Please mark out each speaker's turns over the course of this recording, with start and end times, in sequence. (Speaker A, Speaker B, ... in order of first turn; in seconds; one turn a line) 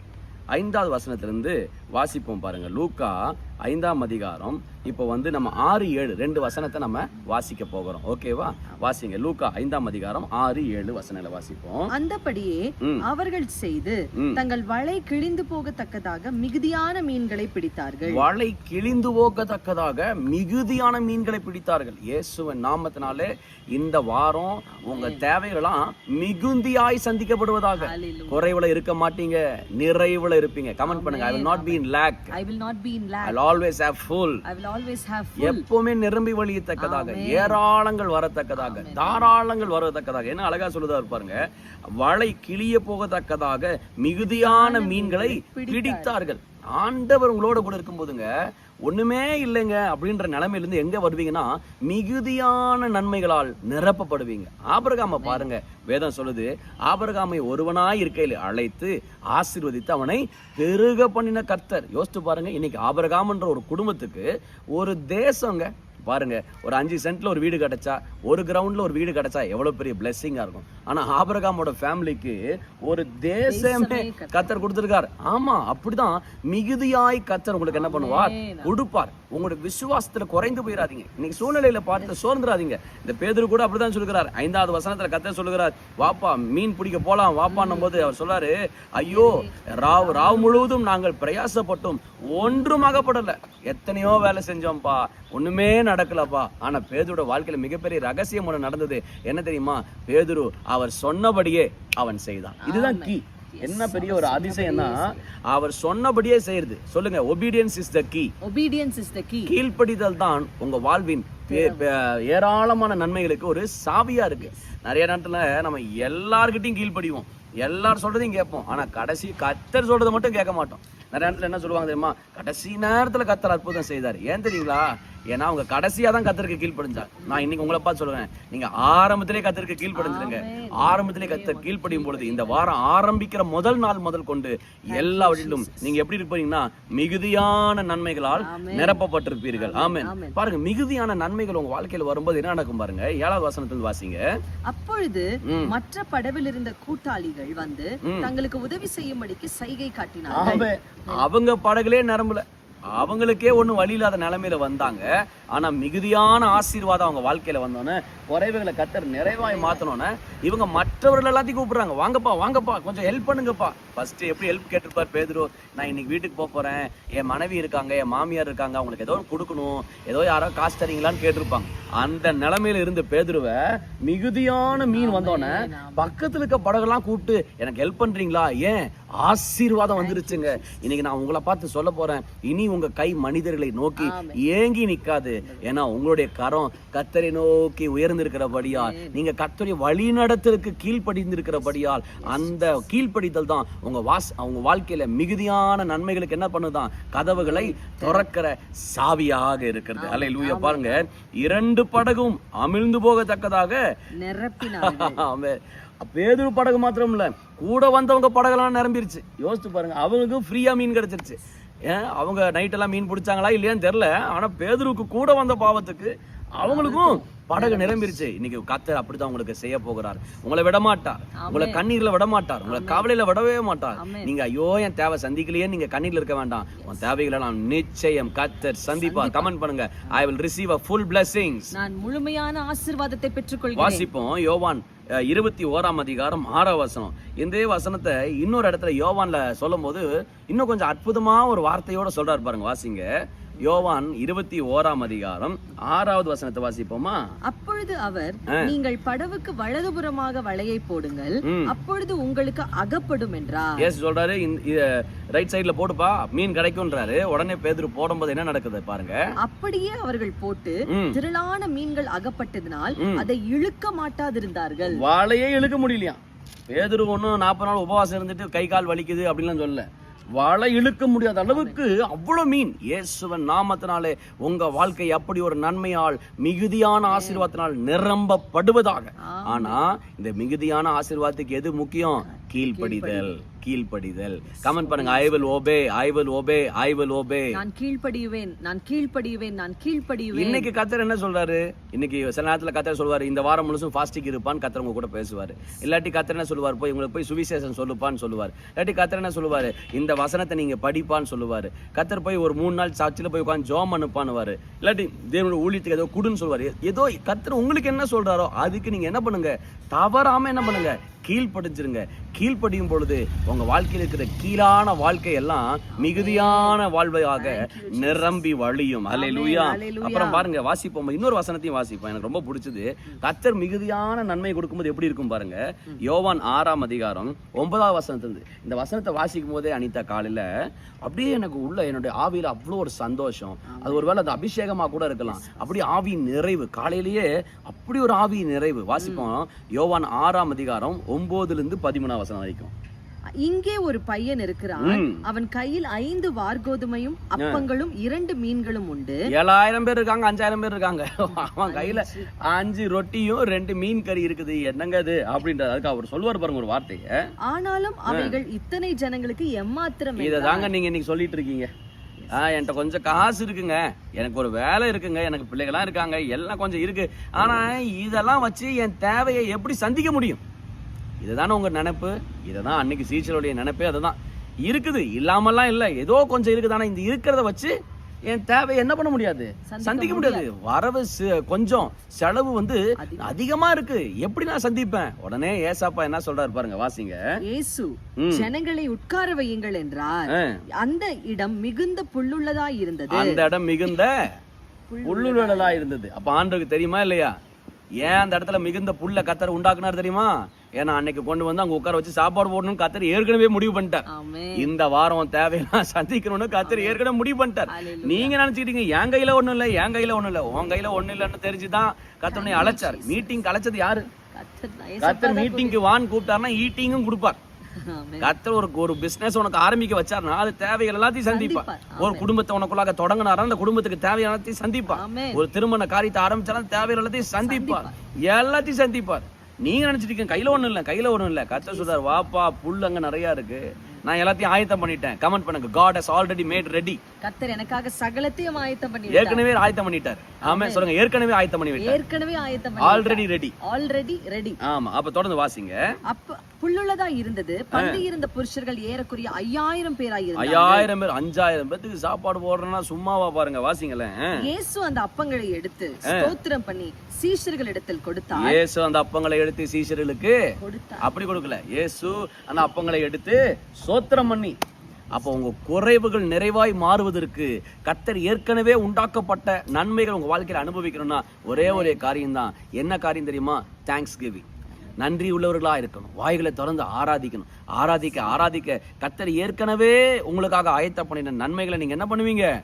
Speaker A: 0.5-11.9
Speaker B: 11.9-18.2
Speaker A: 18.1-32.3
Speaker B: 24.7-25.3
Speaker B: 27.8-28.4
Speaker B: 30.8-33.4
Speaker A: 33.2-34.4
Speaker B: 34.5-35.6
Speaker A: 35.4-41.4
Speaker B: 36.8-37.6
Speaker B: 38.5-39.3
Speaker A: 42.0-48.3
Speaker B: 44.2-46.2
Speaker A: 48.9-108.3
Speaker B: 55.0-55.5
Speaker B: 73.5-74.6
Speaker B: 77.7-78.7
Speaker B: 87.5-88.1
Speaker B: 89.0-90.7
Speaker B: 102.6-105.2
Speaker B: 108.4-109.5
Speaker A: 109.5-144.2
Speaker B: 111.5-111.9
Speaker B: 129.9-132.8
Speaker B: 134.9-135.9
Speaker B: 138.4-139.0
Speaker B: 139.6-140.4
Speaker B: 144.7-151.2
Speaker A: 145.4-145.7
Speaker A: 148.0-148.3
Speaker A: 150.3-203.8
Speaker B: 159.3-159.8
Speaker B: 174.9-176.1
Speaker B: 179.9-180.7
Speaker B: 184.0-184.4
Speaker B: 185.4-185.7
Speaker B: 188.5-189.1
Speaker B: 192.2-192.8
Speaker B: 197.3-198.2
Speaker B: 199.9-201.0
Speaker B: 204.2-205.2
Speaker A: 204.6-231.7
Speaker B: 216.6-218.2
Speaker B: 221.3-221.8
Speaker B: 222.7-223.1
Speaker B: 223.9-224.3
Speaker B: 226.8-227.1
Speaker B: 228.9-229.5
Speaker B: 231.7-234.1
Speaker A: 233.8-243.1
Speaker A: 243.6-247.2
Speaker B: 247.5-253.9
Speaker A: 251.4-251.7
Speaker A: 253.8-259.2
Speaker B: 259.4-265.0
Speaker A: 260.9-261.2
Speaker A: 263.0-263.3
Speaker A: 264.9-266.2
Speaker A: 266.7-269.9
Speaker A: 270.4-287.6
Speaker B: 271.5-271.8
Speaker B: 277.1-277.5
Speaker B: 279.2-279.8
Speaker B: 282.3-283.3
Speaker B: 284.6-285.6
Speaker B: 287.5-290.7
Speaker A: 290.3-330.5
Speaker B: 315.9-316.8
Speaker B: 317.3-318.4
Speaker B: 319.1-320.5
Speaker A: 331.0-342.7
Speaker B: 333.7-334.1
Speaker B: 335.2-335.8
Speaker B: 338.9-339.3
Speaker B: 343.4-349.2
Speaker A: 344.8-345.2
Speaker A: 347.4-347.6
Speaker A: 349.3-357.3
Speaker B: 351.6-352.3
Speaker B: 357.5-360.7
Speaker A: 358.1-358.4
Speaker A: 360.2-361.7
Speaker B: 362.2-362.7
Speaker A: 362.3-370.4
Speaker A: 371.2-377.7
Speaker A: 378.3-387.2
Speaker B: 379.6-380.5
Speaker B: 383.0-383.4
Speaker B: 387.4-393.5
Speaker A: 388.2-388.5
Speaker A: 390.3-390.6
Speaker A: 393.1-394.2
Speaker B: 394.9-395.8
Speaker A: 395.0-397.3
Speaker A: 398.0-414.1
Speaker B: 404.1-404.7
Speaker B: 406.6-407.0
Speaker B: 407.7-408.4
Speaker B: 412.3-413.4
Speaker B: 414.3-415.8
Speaker A: 415.0-417.4
Speaker B: 417.8-418.4
Speaker A: 418.2-437.0
Speaker B: 421.3-422.3
Speaker B: 424.9-425.4
Speaker B: 427.4-427.9
Speaker B: 431.5-432.2
Speaker B: 437.2-439.4
Speaker A: 439.1-442.0
Speaker B: 440.4-440.9
Speaker B: 441.8-444.6
Speaker A: 442.8-443.6
Speaker A: 444.6-445.8
Speaker B: 446.1-450.9
Speaker A: 447.7-448.0
Speaker A: 450.4-454.3
Speaker B: 454.4-458.6
Speaker A: 456.1-456.3
Speaker A: 458.3-460.4
Speaker B: 460.6-461.1
Speaker A: 461.0-464.6
Speaker A: 465.1-474.5
Speaker B: 471.5-472.0
Speaker A: 475.0-482.5